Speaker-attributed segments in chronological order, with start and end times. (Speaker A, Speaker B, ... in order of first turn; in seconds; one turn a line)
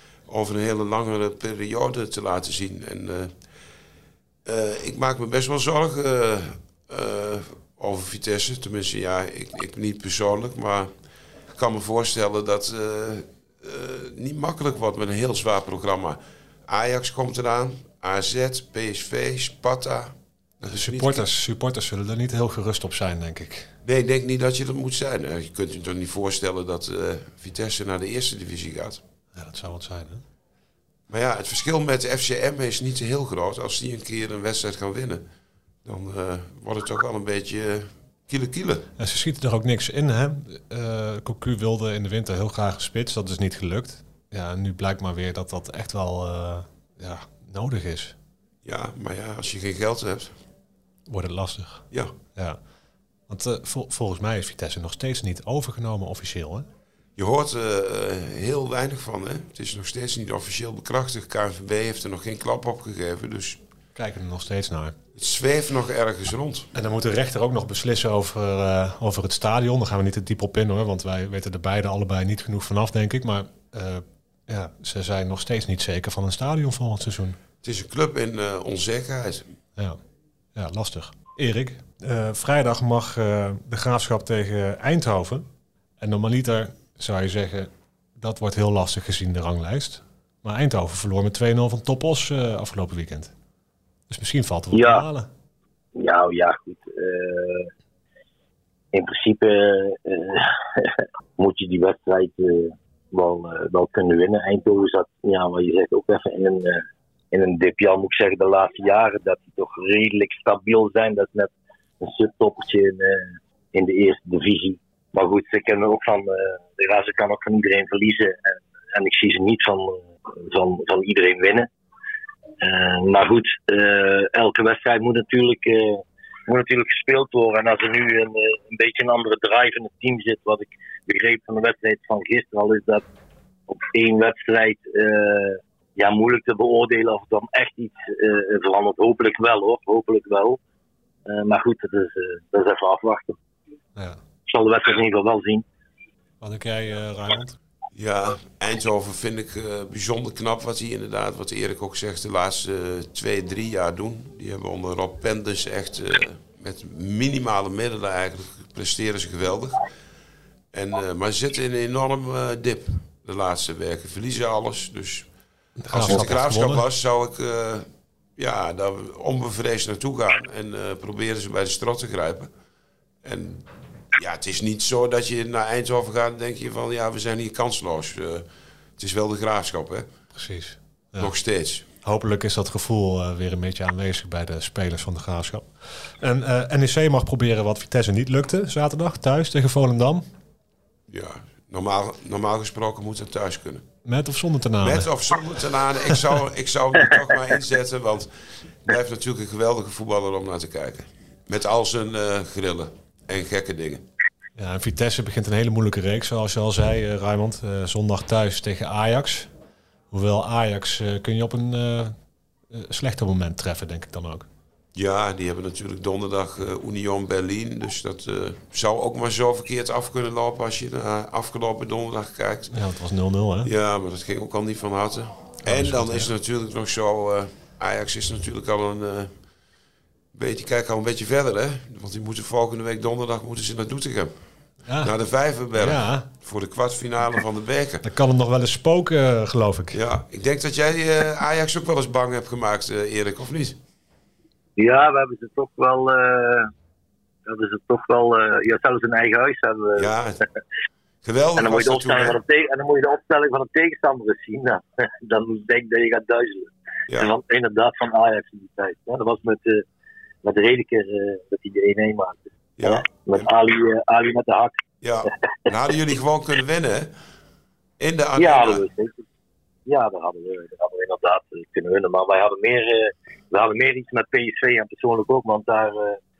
Speaker A: 0.3-3.3
Speaker A: 4.5-10.9
Speaker A: 11.6-21.2
Speaker B: 20.7-23.7
Speaker A: 23.8-29.0
Speaker B: 29.4-30.2
Speaker A: 31.1-35.2
Speaker A: 35.9-38.9
Speaker B: 39.0-48.1
Speaker A: 48.6-50.4
Speaker B: 51.1-52.6
Speaker B: 53.3-56.7
Speaker A: 57.2-63.6
Speaker B: 64.0-65.0
Speaker A: 65.2-66.7
Speaker B: 66.7-77.4
Speaker A: 77.6-79.4
Speaker B: 80.5-85.5
Speaker B: 86.0-93.3
Speaker B: 94.1-95.3
Speaker C: 94.7-95.0
Speaker C: 96.0-97.7
Speaker C: 98.9-121.7
Speaker C: 122.6-133.0
Speaker C: 133.7-140.6
Speaker C: 141.3-143.4
Speaker C: 144.5-145.7
Speaker B: 146.4-147.6
Speaker A: 147.9-159.8
Speaker A: 160.7-165.3
Speaker B: 165.8-166.8
Speaker A: 165.9-167.9
Speaker A: 168.4-172.5
Speaker A: 173.2-178.5
Speaker A: 179.0-180.1
Speaker B: 180.3-181.3
Speaker A: 181.2-181.9
Speaker B: 182.0-190.3
Speaker A: 191.1-193.9
Speaker B: 194.1-195.1
Speaker A: 194.8-204.0
Speaker B: 204.6-209.5
Speaker B: 210.1-212.2
Speaker B: 212.7-214.5
Speaker A: 214.9-222.7
Speaker B: 222.7-223.7
Speaker A: 223.6-229.3
Speaker B: 225.7-226.3
Speaker A: 230.3-234.3
Speaker B: 234.9-235.1
Speaker A: 235.0-238.1
Speaker B: 235.7-236.3
Speaker B: 238.0-240.0
Speaker A: 239.9-243.8
Speaker C: 244.8-246.7
Speaker C: 247.5-250.1
Speaker A: 250.0-250.4
Speaker A: 251.2-252.4
Speaker C: 251.6-259.9
Speaker A: 257.1-257.3
Speaker C: 260.4-264.8
Speaker A: 262.8-263.5
Speaker A: 265.0-267.1
Speaker A: 268.0-268.9
Speaker C: 268.4-269.2
Speaker C: 269.9-276.2